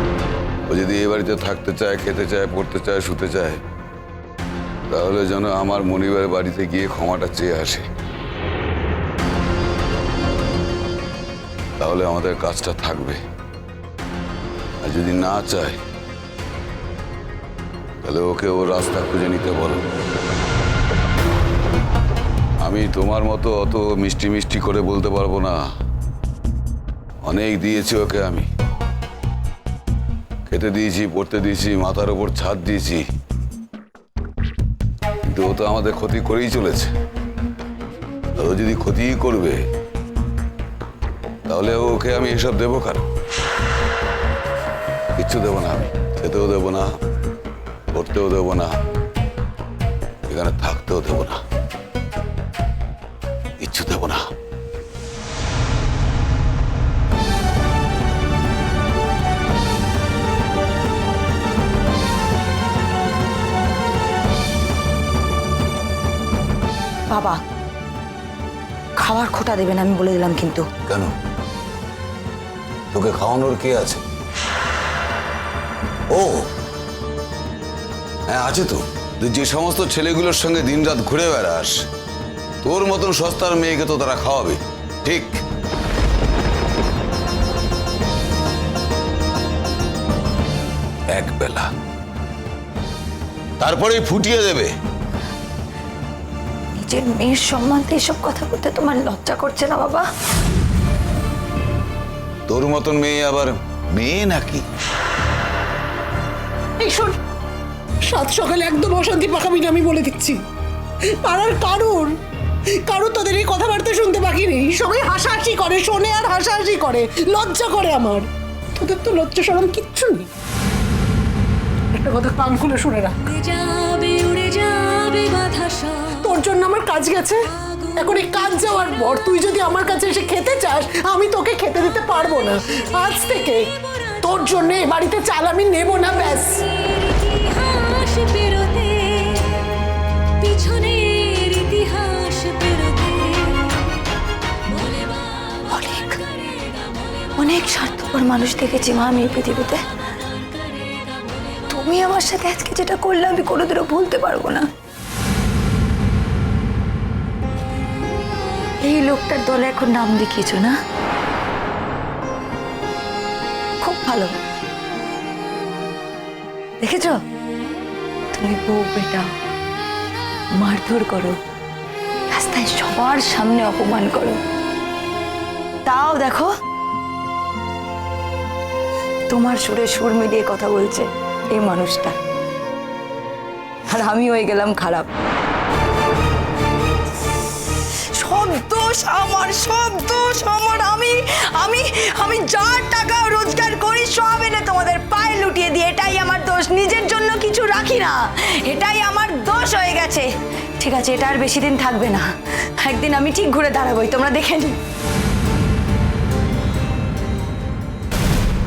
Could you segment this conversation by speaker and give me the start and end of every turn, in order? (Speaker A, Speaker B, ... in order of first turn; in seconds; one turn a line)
Speaker A: 0.7-3.6
Speaker A: 4.9-7.9
Speaker A: 11.8-13.2
Speaker A: 14.8-15.8
Speaker A: 18.0-19.9
Speaker A: 22.6-25.6
Speaker A: 27.2-28.5
Speaker A: 30.5-33.0
Speaker A: 35.3-36.9
Speaker A: 38.4-39.6
Speaker A: 41.5-43.0
Speaker A: 45.2-47.0
Speaker A: 47.9-48.8
Speaker A: 50.3-51.4
Speaker A: 53.6-54.3
Speaker B: 67.1-67.4
Speaker B: 69.0-70.7
Speaker A: 70.9-71.1
Speaker A: 72.9-74.0
Speaker A: 76.1-76.5
Speaker A: 78.3-81.9
Speaker A: 82.6-85.4
Speaker A: 91.1-91.7
Speaker A: 93.6-94.7
Speaker B: 96.8-100.0
Speaker A: 102.5-104.7
Speaker C: 106.8-107.1
Speaker C: 108.0-110.4
Speaker C: 111.2-112.2
Speaker C: 112.8-120.3
Speaker C: 121.9-123.2
Speaker D: 123.3-126.1
Speaker C: 126.2-127.4
Speaker C: 128.0-136.7
Speaker D: 136.9-139.6
Speaker D: 140.4-143.7
Speaker B: 145.7-146.2
Speaker B: 147.4-149.8
Speaker B: 151.7-154.7
Speaker B: 158.8-160.8
Speaker B: 163.8-164.3
Speaker B: 166.8-167.2
Speaker B: 168.3-169.3
Speaker B: 170.6-171.4
Speaker B: 172.3-174.4
Speaker B: 175.9-176.5
Speaker B: 179.3-182.2
Speaker B: 183.9-185.1
Speaker B: 188.2-200.3
Speaker B: 200.8-202.3
Speaker B: 202.8-204.8